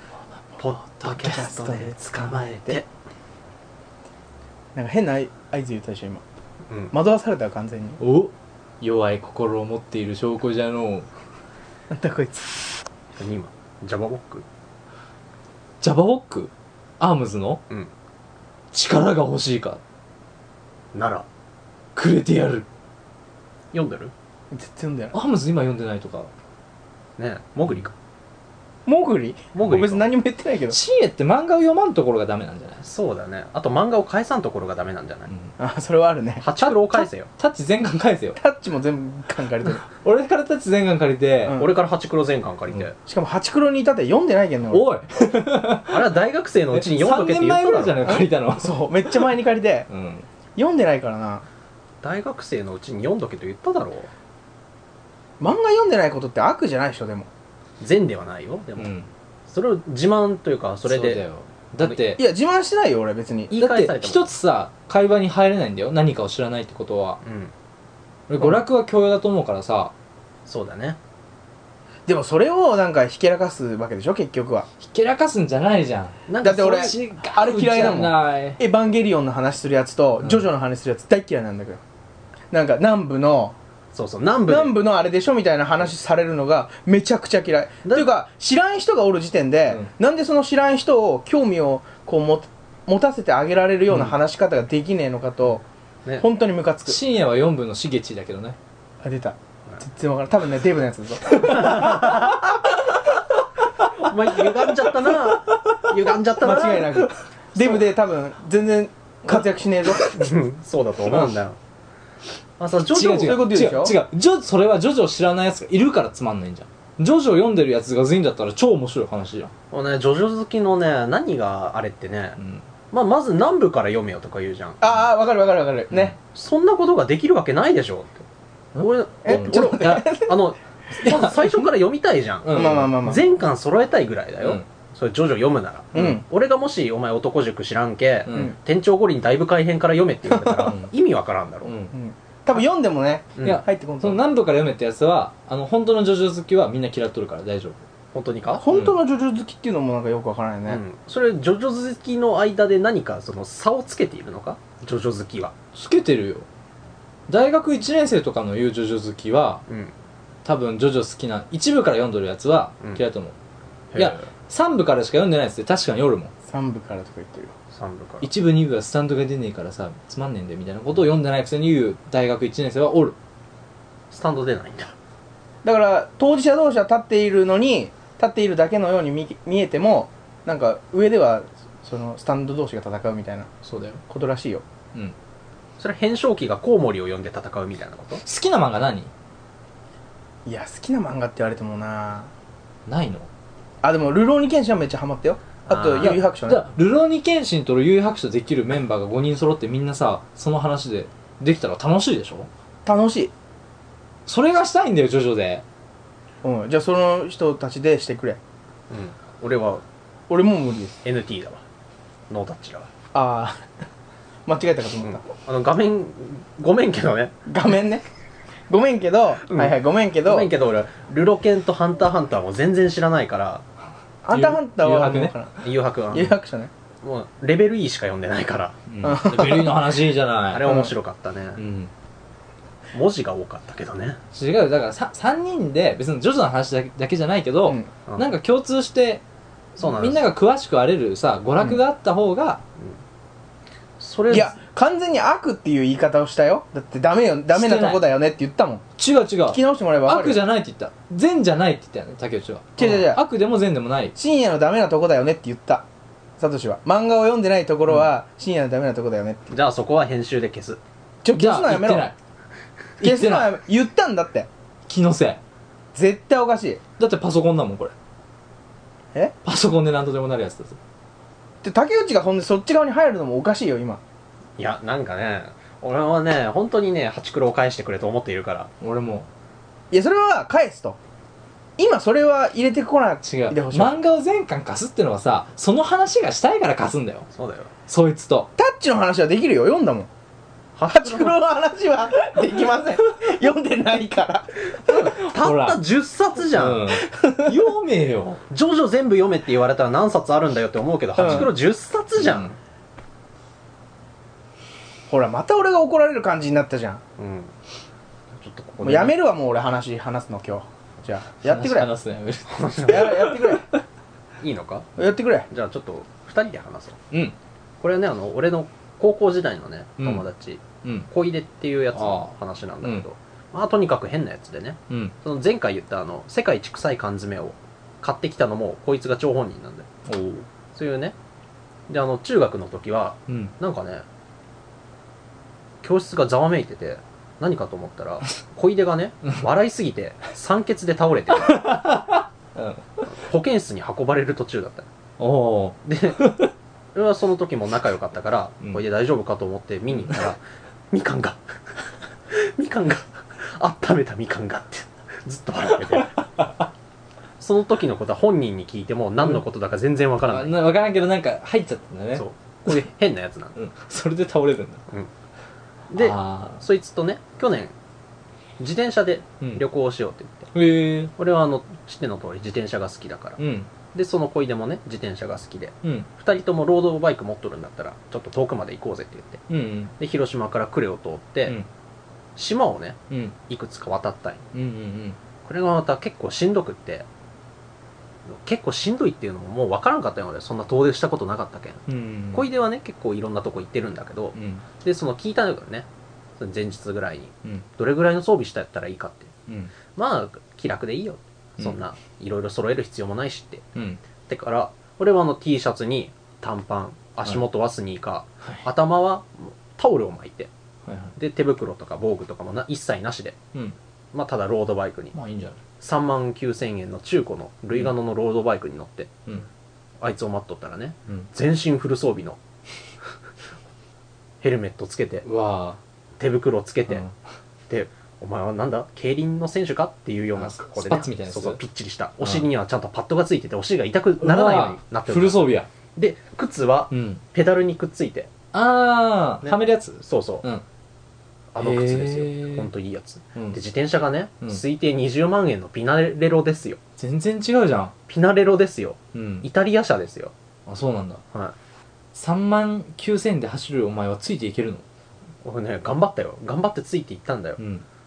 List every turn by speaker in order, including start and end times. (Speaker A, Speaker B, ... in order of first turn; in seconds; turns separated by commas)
Speaker A: 0.6-2.9, Speaker B: 0.9-1.4, Speaker C: 1.2-2.8, Speaker C: 4.7-6.2, Speaker C: 6.9-8.0, Speaker B: 8.0-11.1, Speaker C: 11.9-12.6, Speaker A: 13.2-14.5, Speaker B: 15.8-17.6, Speaker B: 18.7-19.8, Speaker A: 20.9-21.3, Speaker B: 22.0-22.7, Speaker A: 23.7-24.1, Speaker C: 24.5-25.1, Speaker B: 25.1-26.3, Speaker A: 27.2-27.9, Speaker C: 28.9-30.8, Speaker A: 29.5-30.1, Speaker B: 30.7-32.9, Speaker A: 32.8-35.3, Speaker C: 35.6-36.5, Speaker A: 36.4-37.3, Speaker B: 36.6-38.4, Speaker C: 38.4-39.8, Speaker B: 39.9-41.6, Speaker C: 41.4-41.7, Speaker A: 41.5-43.0, Speaker C: 43.0-44.9, Speaker B: 44.7-46.1, Speaker A: 45.9-48.0, Speaker B: 46.7-49.2, Speaker C: 48.0-49.9, Speaker B: 49.9-50.3, Speaker C: 50.5-51.5, Speaker A: 52.0-54.1, Speaker C: 55.4-57.3, Speaker A: 57.8-58.9, Speaker B: 58.8-59.1, Speaker A: 59.5-61.2, Speaker B: 60.9-62.2, Speaker C: 62.0-63.5, Speaker A: 63.5-64.3, Speaker B: 63.5-67.2, Speaker A: 67.2-67.5, Speaker B: 68.3-69.9, Speaker A: 70.5-71.0, Speaker C: 72.0-74.7, Speaker B: 74.8-78.6, Speaker A: 76.3-76.9, Speaker C: 76.4-81.8, Speaker C: 82.5-83.5, Speaker A: 83.9-84.8, Speaker C: 84.5-95.6, Speaker B: 93.9-94.1, Speaker C: 96.2-97.0, Speaker B: 96.9-98.6, Speaker C: 99.0-102.0, Speaker A: 101.5-102.5, Speaker A: 104.0-107.0, Speaker C: 106.4-110.3, Speaker A: 110.1-111.6, Speaker A: 112.6-113.5, Speaker B: 112.9-119.5, Speaker C: 113.1-114.0, Speaker A: 119.7-122.4, Speaker B: 122.4-122.6, Speaker A: 122.9-124.8, Speaker C: 124.8-126.1, Speaker B: 125.9-126.1, Speaker A: 126.2-128.2, Speaker B: 128.8-130.3, Speaker A: 128.8-141.7, Speaker C: 129.2-130.4, Speaker B: 131.0-131.7, Speaker B: 132.4-133.1, Speaker C: 132.5-133.2, Speaker C: 135.9-136.2, Speaker B: 138.2-138.5, Speaker B: 140.6-140.9, Speaker B: 141.6-141.9, Speaker C: 141.9-144.2, Speaker A: 143.4-143.6, Speaker B: 143.4-147.8, Speaker A: 148.1-148.7, Speaker C: 148.6-150.8, Speaker B: 148.7-148.9, Speaker A: 150.7-155.5, Speaker B: 155.7-156.5, Speaker B: 157.3-159.6, Speaker A: 159.7-159.9, Speaker B: 160.4-163.3, Speaker A: 163.9-164.3, Speaker B: 163.9-166.3, Speaker C: 166.4-167.5, Speaker A: 167.7-168.3, Speaker B: 168.2-173.2, Speaker A: 174.1-174.9, Speaker C: 175.6-183.5, Speaker B: 183.7-184.0, Speaker C: 184.1-184.6, Speaker A: 185.8-188.2, Speaker B: 188.2-189.1, Speaker C: 190.4-192.3, Speaker B: 192.8-193.3, Speaker C: 193.8-196.6, Speaker A: 195.7-196.2, Speaker B: 196.0-202.5, Speaker C: 202.8-203.3, Speaker B: 204.3-205.6, Speaker C: 206.4-208.4, Speaker A: 208.9-209.8, Speaker C: 210.3-211.0, Speaker A: 211.0-211.6, Speaker A: 212.3-212.9, Speaker C: 213.1-213.7, Speaker C: 214.4-215.2, Speaker A: 215.0-217.3, Speaker C: 217.4-218.0, Speaker C: 218.7-220.5, Speaker A: 219.5-223.6, Speaker C: 224.2-225.6, Speaker B: 224.3-225.3, Speaker A: 225.6-226.3, Speaker C: 226.1-226.7, Speaker A: 227.0-228.8, Speaker B: 228.9-230.7, Speaker C: 229.0-229.9, Speaker A: 230.5-231.6, Speaker C: 230.6-230.9, Speaker B: 231.6-231.9, Speaker A: 232.9-234.2, Speaker B: 234.3-239.2, Speaker A: 239.8-240.2, Speaker B: 239.8-242.6, Speaker A: 244.0-244.6, Speaker C: 244.3-248.8, Speaker B: 247.5-248.0, Speaker B: 249.0-254.2, Speaker C: 249.5-250.4, Speaker C: 252.8-253.2, Speaker C: 254.2-255.8, Speaker C: 256.4-259.5, Speaker A: 259.5-260.8, Speaker C: 261.2-262.1, Speaker B: 261.3-262.2, Speaker C: 263.0-264.5, Speaker B: 263.0-263.5, Speaker B: 264.9-265.4, Speaker C: 265.9-266.8, Speaker B: 267.0-267.9, Speaker B: 269.4-270.8, Speaker C: 271.6-274.0, Speaker A: 274.6-278.7, Speaker B: 278.8-279.3, Speaker C: 279.9-281.0, Speaker C: 281.8-284.0, Speaker B: 283.2-287.3, Speaker A: 287.3-287.7, Speaker B: 287.9-288.5, Speaker C: 288.6-290.1, Speaker A: 290.8-291.4, Speaker C: 290.9-294.6, Speaker A: 294.8-297.0, Speaker B: 294.9-295.8, Speaker B: 296.5-298.4, Speaker A: 298.4-302.6, Speaker C: 301.2-301.5, Speaker B: 301.2-301.5, Speaker B: 302.2-302.5, Speaker C: 305.1-307.0, Speaker A: 307.2-307.5, Speaker A: 308.3-309.1, Speaker C: 308.8-311.9, Speaker B: 311.5-313.8, Speaker A: 312.5-313.2, Speaker C: 312.8-313.7, Speaker A: 314.4-314.9, Speaker C: 315.0-315.5, Speaker A: 315.5-317.0, Speaker A: 317.8-329.9, Speaker B: 321.9-323.0, Speaker B: 324.9-325.1, Speaker B: 330.1-330.5, Speaker A: 330.8-331.1, Speaker A: 331.9-334.1, Speaker A: 335.8-341.6, Speaker B: 341.4-343.0, Speaker A: 343.1-344.9, Speaker B: 345.2-346.5, Speaker A: 345.9-346.2, Speaker A: 346.9-356.2, Speaker B: 356.0-356.5, Speaker A: 357.4-360.6, Speaker B: 360.2-362.9, Speaker A: 362.1-363.6, Speaker B: 363.6-364.9, Speaker A: 365.9-367.7, Speaker B: 365.9-366.6, Speaker A: 368.6-370.5, Speaker B: 370.5-371.1, Speaker A: 371.2-373.4, Speaker B: 373.4-373.7, Speaker A: 373.9-379.4, Speaker B: 375.8-376.1, Speaker B: 379.5-379.9, Speaker A: 380.0-381.6, Speaker A: 382.4-384.4, Speaker B: 384.5-385.2, Speaker A: 385.4-387.1, Speaker A: 388.3-395.9, Speaker B: 391.9-392.5, Speaker B: 394.3-394.6, Speaker A: 396.4-399.3, Speaker B: 399.5-399.7, Speaker A: 399.9-403.6, Speaker B: 403.8-404.0, Speaker A: 404.3-410.5, Speaker B: 410.9-411.1, Speaker A: 411.2-413.4, Speaker A: 414.1-415.1, Speaker B: 415.1-415.6, Speaker A: 415.8-419.1, Speaker A: 420.0-422.4, Speaker A: 424.4-425.2, Speaker B: 425.2-425.8, Speaker A: 426.2-427.0, Speaker A: 427.7-438.3, Speaker B: 430.4-431.6, Speaker B: 432.2-432.5, Speaker B: 434.2-435.7, Speaker B: 436.9-437.2, Speaker B: 438.5-440.6, Speaker A: 439.4-440.4, Speaker A: 441.5-446.8, Speaker B: 441.6-442.7, Speaker B: 443.4-443.6, Speaker B: 447.0-447.9, Speaker A: 448.1-450.3, Speaker B: 449.1-449.5, Speaker B: 450.7-451.2, Speaker B: 452.1-454.9, Speaker A: 455.4-457.6, Speaker B: 457.6-457.9